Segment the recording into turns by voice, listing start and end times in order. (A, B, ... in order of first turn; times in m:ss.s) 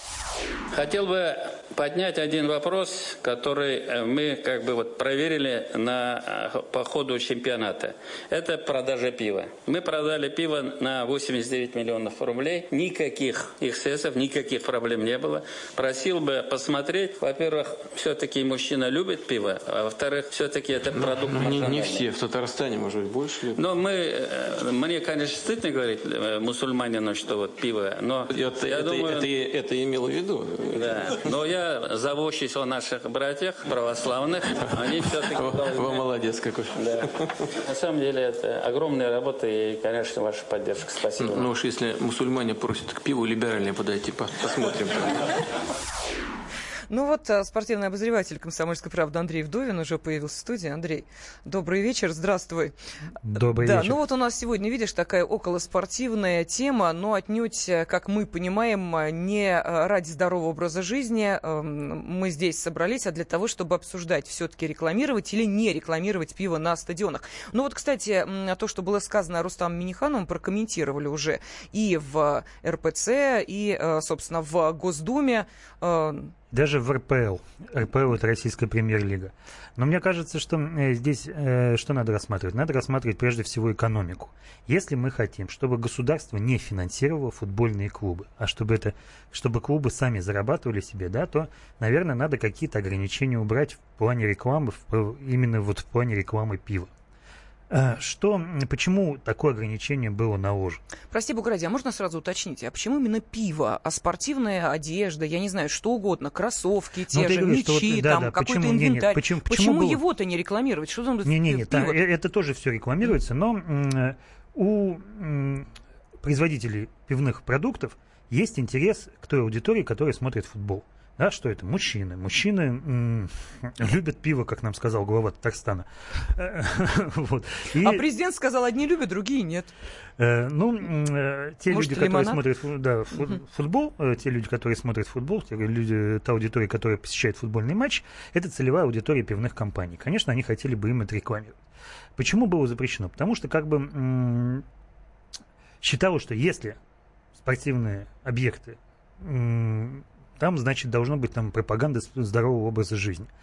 0:00.7-0:22.1 A
0:20.9-0:23.6 B
0:23.5-0:29.4 A
0:28.3-0:31.2 B
0:30.7-0:36.2 A
0:35.3-0:37.2 B
0:36.7-0:41.5 A
0:41.2-0:45.3 B
0:46.9-0:52.7 C
0:53.3-0:54.0 D
0:53.5-1:16.3 C
1:16.5-1:36.9 D
1:37.7-1:40.8 D
1:41.1-1:52.0 C
1:47.1-1:50.0 D
1:51.2-1:55.7 D
1:56.2-2:08.0 D
2:07.8-2:09.7 C
2:10.2-2:21.6 D
2:11.7-2:12.4 C
2:22.2-2:24.6 D
2:25.8-2:26.8 D
2:27.4-2:33.3 D